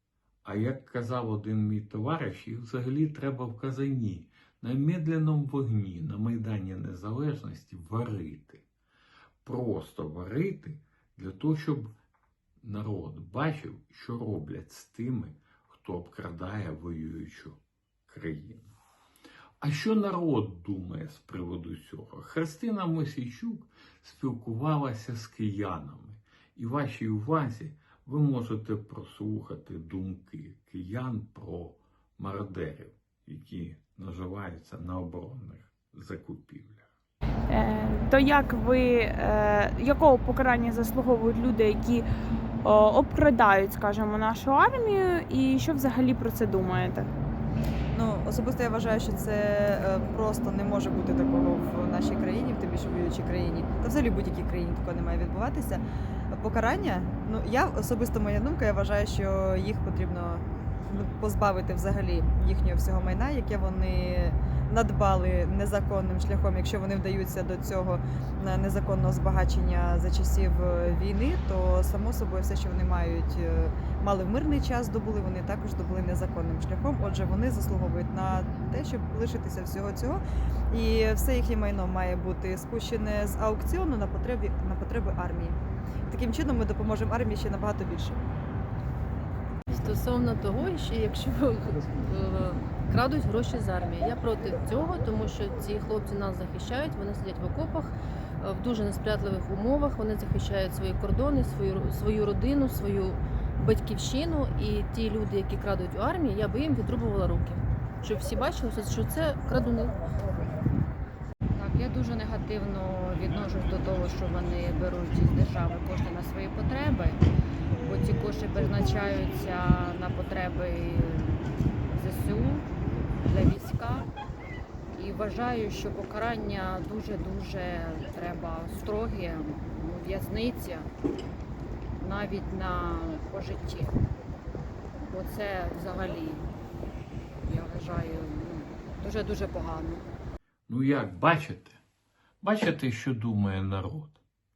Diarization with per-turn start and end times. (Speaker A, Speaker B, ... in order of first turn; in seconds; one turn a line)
Speaker A: 0.4-8.6
Speaker A: 9.4-11.9
Speaker A: 12.6-18.7
Speaker A: 19.6-36.9
Speaker B: 37.5-42.1
Speaker B: 42.6-47.1
Speaker C: 47.9-88.2
Speaker D: 89.7-110.0
Speaker E: 111.5-117.2
Speaker E: 117.8-121.4
Speaker E: 121.9-122.7
Speaker E: 123.3-124.1
Speaker E: 125.0-130.9
Speaker E: 132.0-134.0
Speaker E: 135.1-136.5
Speaker E: 137.4-140.0
Speaker A: 140.7-141.8
Speaker A: 142.4-144.2